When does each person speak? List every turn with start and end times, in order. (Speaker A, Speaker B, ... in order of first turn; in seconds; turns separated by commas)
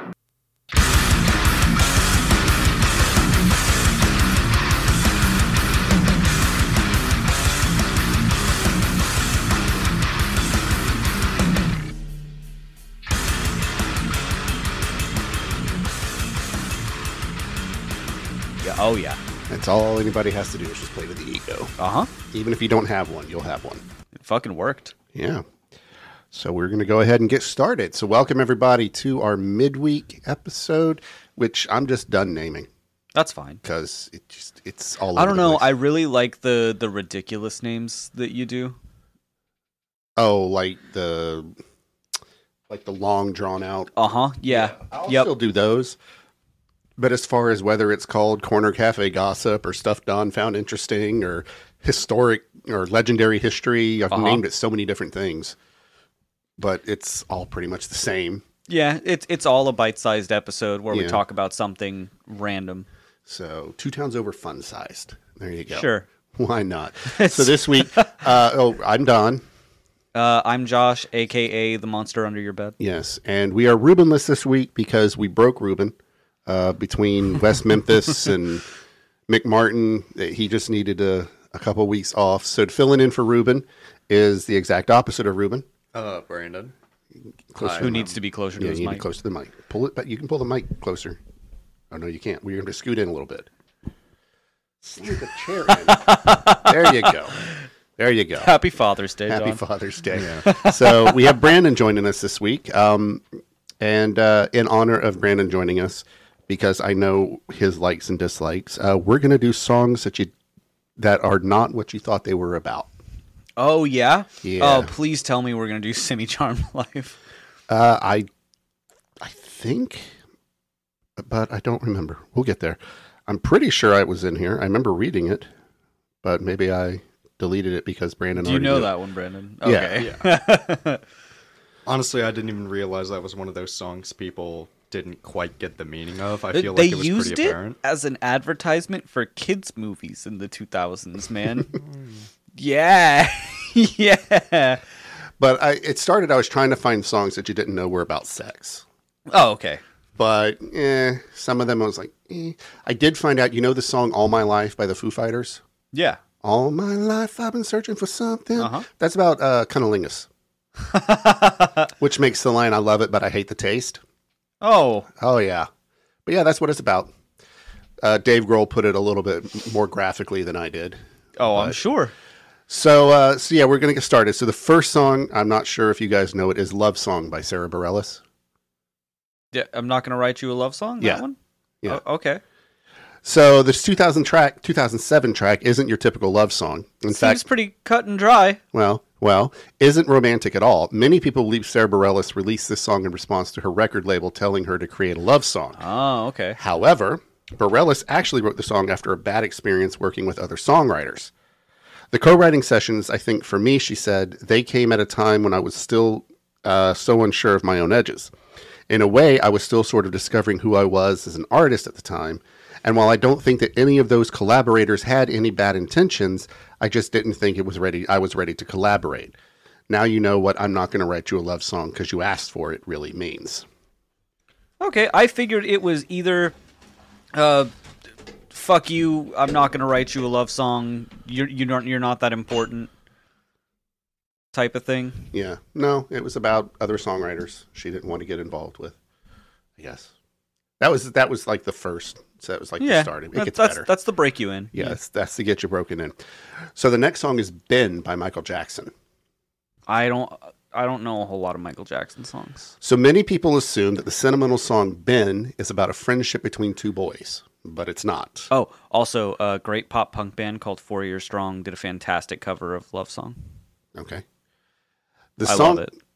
Speaker A: 18.6-19.2, Speaker B: 19.5-21.7, Speaker A: 21.8-22.1, Speaker B: 22.3-23.8, Speaker A: 24.1-24.9, Speaker B: 25.1-25.4, Speaker B: 26.3-32.7, Speaker A: 33.1-33.6, Speaker B: 33.6-35.7, Speaker A: 35.1-38.8, Speaker B: 40.2-41.5, Speaker B: 42.7-43.9, Speaker A: 44.0-45.3, Speaker B: 44.5-46.0, Speaker B: 47.0-55.5, Speaker A: 54.1-54.4, Speaker B: 56.6-58.4, Speaker A: 58.7-62.9, Speaker B: 60.9-61.2, Speaker B: 63.2-69.4, Speaker A: 65.7-66.0, Speaker A: 67.1-68.2, Speaker A: 70.1-72.8, Speaker B: 72.8-75.9, Speaker B: 76.5-78.6, Speaker B: 79.3-85.7, Speaker C: 85.9-86.7, Speaker B: 87.5-91.2, Speaker C: 87.6-88.1, Speaker A: 87.8-89.0, Speaker B: 91.9-93.5, Speaker B: 94.8-97.4, Speaker A: 95.7-97.6, Speaker B: 98.0-98.5, Speaker A: 98.4-99.6, Speaker B: 99.3-103.2, Speaker C: 100.1-100.4, Speaker A: 100.4-101.3, Speaker B: 103.8-110.3, Speaker B: 111.0-112.9, Speaker A: 113.6-117.2, Speaker B: 114.4-114.9, Speaker B: 117.7-118.3, Speaker B: 119.2-120.1, Speaker B: 121.2-125.5, Speaker B: 126.2-128.9, Speaker A: 128.3-131.0, Speaker B: 129.6-130.1, Speaker C: 130.0-130.2, Speaker C: 131.8-137.8, Speaker A: 136.5-141.7, Speaker C: 141.8-142.2, Speaker A: 142.6-144.8, Speaker B: 145.4-148.8, Speaker A: 149.3-149.8, Speaker B: 150.2-155.6, Speaker A: 155.9-156.2, Speaker B: 156.4-160.3, Speaker A: 158.6-158.9, Speaker A: 160.9-161.9, Speaker B: 162.0-164.0, Speaker A: 164.6-165.1, Speaker B: 165.2-165.7, Speaker B: 166.2-167.1, Speaker B: 168.0-171.8, Speaker A: 171.4-172.1, Speaker B: 172.7-178.2, Speaker A: 179.5-182.4, Speaker B: 183.2-187.4, Speaker A: 187.1-188.6, Speaker B: 188.7-195.8, Speaker A: 195.8-196.6, Speaker B: 196.6-201.3, Speaker B: 202.1-208.3, Speaker B: 208.9-219.3, Speaker B: 219.9-223.7, Speaker A: 224.8-226.5, Speaker A: 227.3-227.7, Speaker A: 228.5-232.9, Speaker A: 234.5-235.3, Speaker B: 235.3-238.9, Speaker B: 239.8-240.1, Speaker B: 240.8-243.9, Speaker A: 242.8-245.0, Speaker B: 244.7-246.2, Speaker B: 246.7-248.9, Speaker A: 249.9-252.7, Speaker B: 252.8-258.5, Speaker A: 258.5-263.4, Speaker B: 263.9-264.2, Speaker B: 265.4-265.9, Speaker A: 265.4-265.9